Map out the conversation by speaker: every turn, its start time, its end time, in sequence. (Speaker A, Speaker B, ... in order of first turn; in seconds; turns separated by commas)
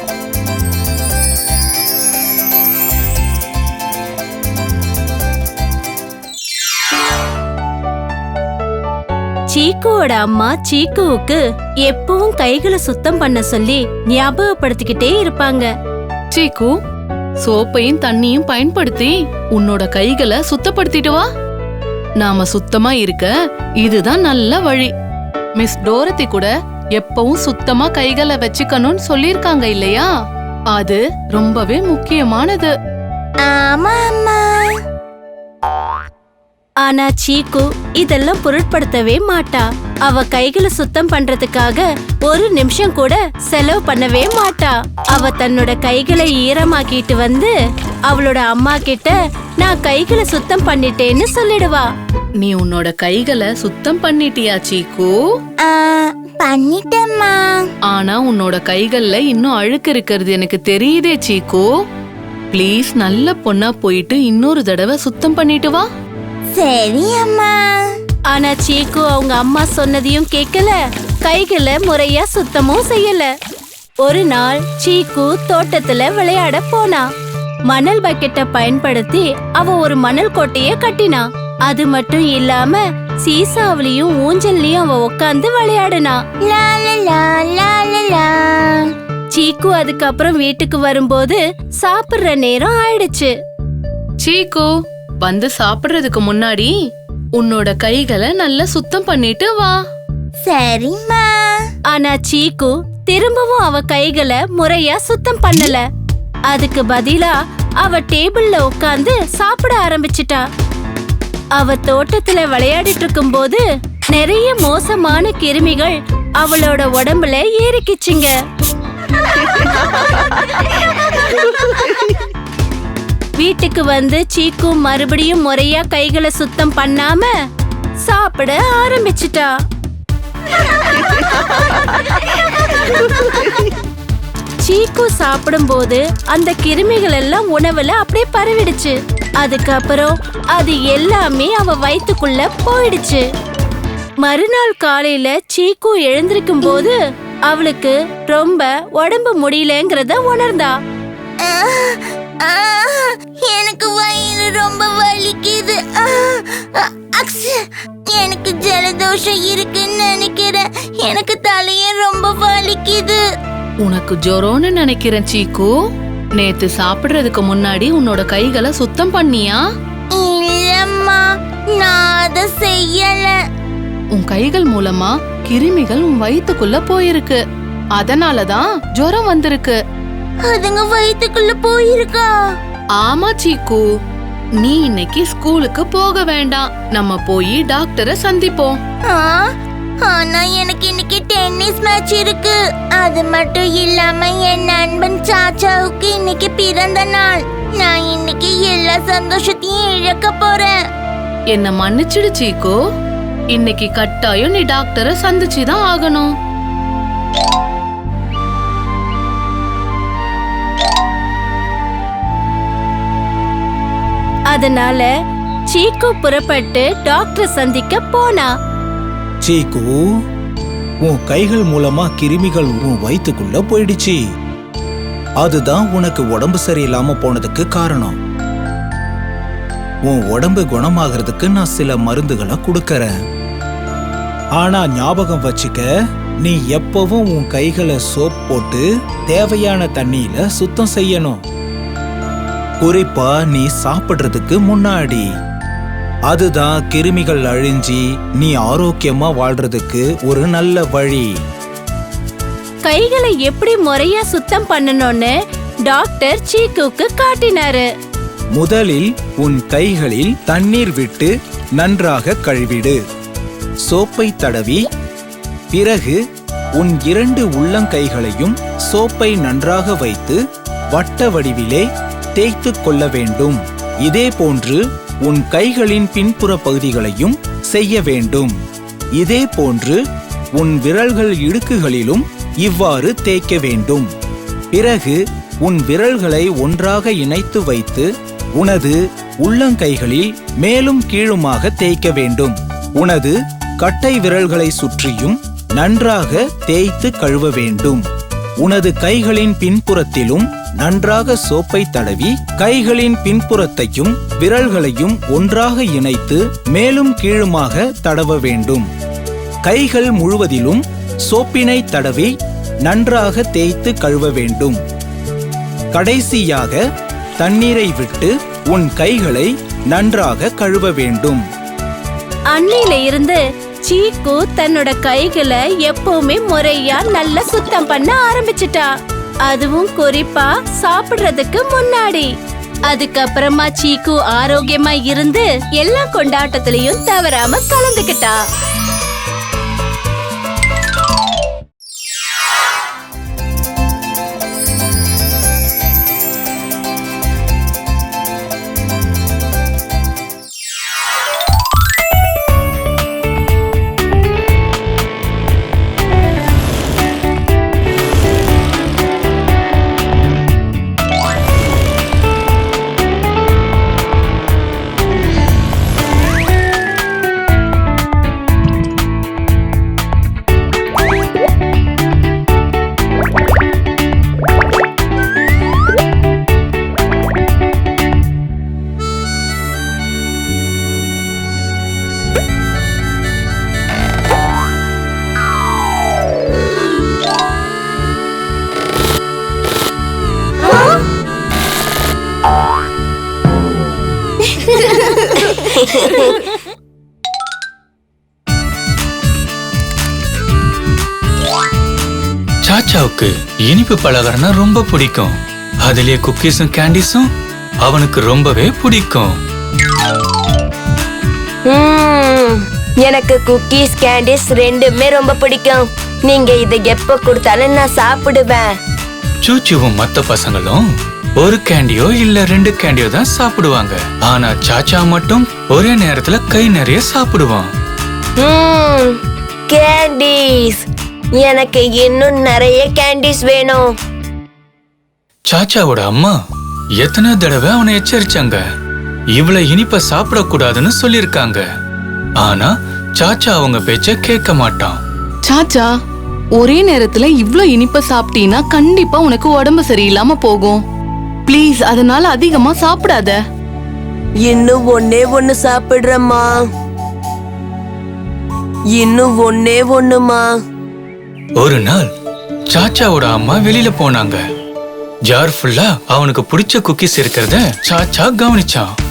Speaker A: 9.5-15.7, Speaker B: 16.3-16.7, Speaker B: 17.4-21.3, Speaker B: 22.2-24.9, Speaker B: 25.6-30.1, Speaker B: 30.7-32.7, Speaker C: 33.4-34.8, Speaker A: 36.8-47.5, Speaker A: 48.1-51.9, Speaker B: 52.4-55.2, Speaker C: 55.6-57.7, Speaker B: 57.9-61.7, Speaker B: 62.5-65.8, Speaker C: 66.5-67.6, Speaker A: 68.3-73.3, Speaker A: 74.0-77.0, Speaker A: 77.7-86.2, Speaker C: 86.5-88.8, Speaker A: 89.3-93.3, Speaker B: 94.2-96.7, Speaker B: 97.3-99.8, Speaker C: 100.4-101.3, Speaker A: 101.9-105.8, Speaker A: 106.5-110.4, Speaker A: 111.5-118.3, Speaker A: 123.4-127.3, Speaker A: 128.0-129.5, Speaker A: 134.6-143.2, Speaker A: 144.2-146.9, Speaker A: 147.5-150.8, Speaker C: 151.4-157.6, Speaker C: 158.1-163.2, Speaker B: 163.8-165.7, Speaker B: 166.3-169.6, Speaker C: 170.1-173.3, Speaker B: 174.1-177.4, Speaker B: 177.9-179.8, Speaker C: 180.4-182.3, Speaker B: 182.9-183.9, Speaker B: 184.6-188.8, Speaker C: 189.1-189.5, Speaker C: 190.0-200.7, Speaker B: 201.5-202.8, Speaker B: 203.5-206.3, Speaker A: 214.5-215.1, Speaker A: 215.7-218.5, Speaker D: 219.4-219.9, Speaker D: 221.1-224.2, Speaker D: 225.4-228.2, Speaker D: 230.1-233.1, Speaker D: 234.6-235.8, Speaker D: 236.4-241.4, Speaker D: 242.8-245.2, Speaker D: 246.3-251.3, Speaker A: 252.8-255.3, Speaker A: 255.8-257.9, Speaker D: 258.6-263.0, Speaker D: 263.9-264.9, Speaker D: 265.7-266.2, Speaker D: 266.8-270.4, Speaker D: 270.9-278.5, Speaker D: 279.2-280.0, Speaker D: 280.6-284.1, Speaker D: 284.7-298.0, Speaker D: 298.6-308.9, Speaker D: 309.6-312.3, Speaker D: 312.9-314.8, Speaker D: 315.9-316.8, Speaker D: 317.4-321.4, Speaker A: 322.5-328.9, Speaker A: 329.4-332.3, Speaker A: 332.9-338.4, Speaker E: 395.9-396.2, Speaker F: 402.6-407.3, Speaker F: 407.8-409.3, Speaker E: 411.7-418.7, Speaker F: 419.4-420.8, Speaker F: 421.4-427.7, Speaker E: 428.4-429.1, Speaker E: 429.7-430.8, Speaker E: 431.4-433.9, Speaker F: 435.5-436.3, Speaker F: 437.0-438.6, Speaker F: 439.3-441.6, Speaker F: 442.4-445.0, Speaker B: 445.4-445.9, Speaker B: 446.5-450.8, Speaker B: 451.5-453.4, Speaker E: 454.4-456.6, Speaker E: 458.9-460.5, Speaker F: 461.6-462.1, Speaker F: 462.7-464.4, Speaker F: 465.3-468.9